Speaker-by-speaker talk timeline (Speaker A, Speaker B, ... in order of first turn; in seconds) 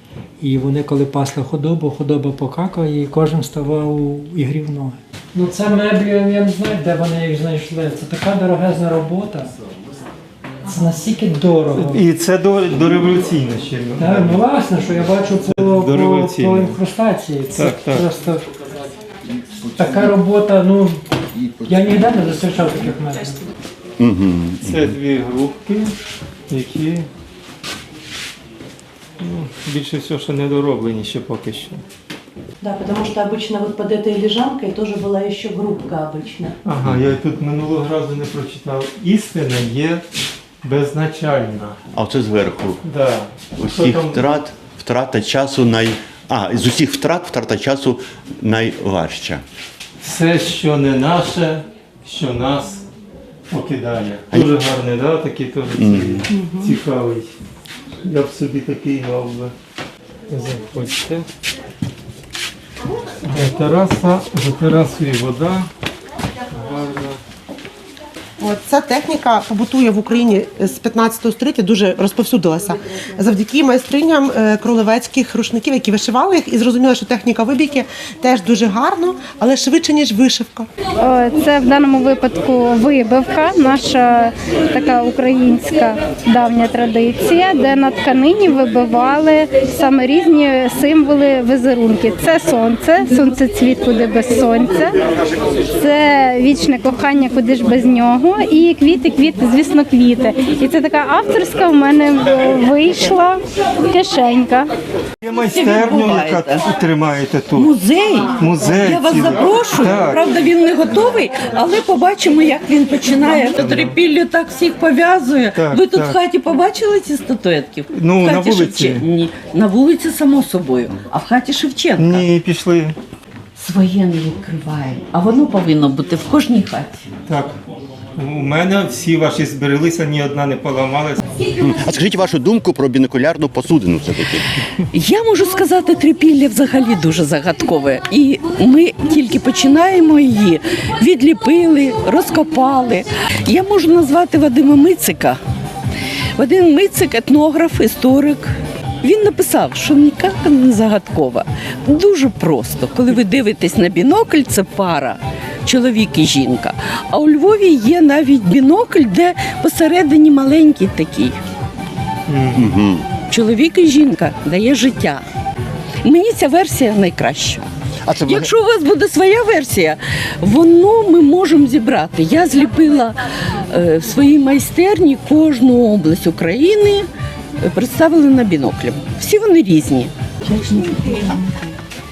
Speaker A: 0.4-9.5, 10.7-12.0, 14.0-18.4, 19.7-21.0, 21.6-23.5
Speaker B: 11.8-14.4, 15.5-16.8, 17.5-18.1, 24.6-25.9, 26.5-27.1, 29.2-31.8, 36.6-40.0, 40.6-41.8, 42.8-44.4, 50.0-52.8, 53.5-57.3, 58.0-59.5, 60.3-61.2, 63.2-65.7, 66.5-67.2, 105.2-107.7, 108.4-110.2, 113.5-114.0, 115.5-116.2, 117.9-119.0, 122.0-122.9, 127.3-127.6, 128.2-131.2, 162.3-162.6
Speaker C: 24.0-24.9, 41.9-42.8, 43.6-49.4, 55.8-56.3, 131.6-134.4, 162.5-163.1, 168.0-168.5
Speaker D: 32.6-36.5, 56.3-56.7, 180.6-181.1
Speaker E: 68.4-80.7
Speaker F: 81.0-95.0, 95.7-104.7
Speaker G: 105.5-106.7, 107.6-122.2, 123.5-127.1, 134.9-145.4, 146.4-161.3, 163.3-165.2, 166.0-167.7, 168.2-181.4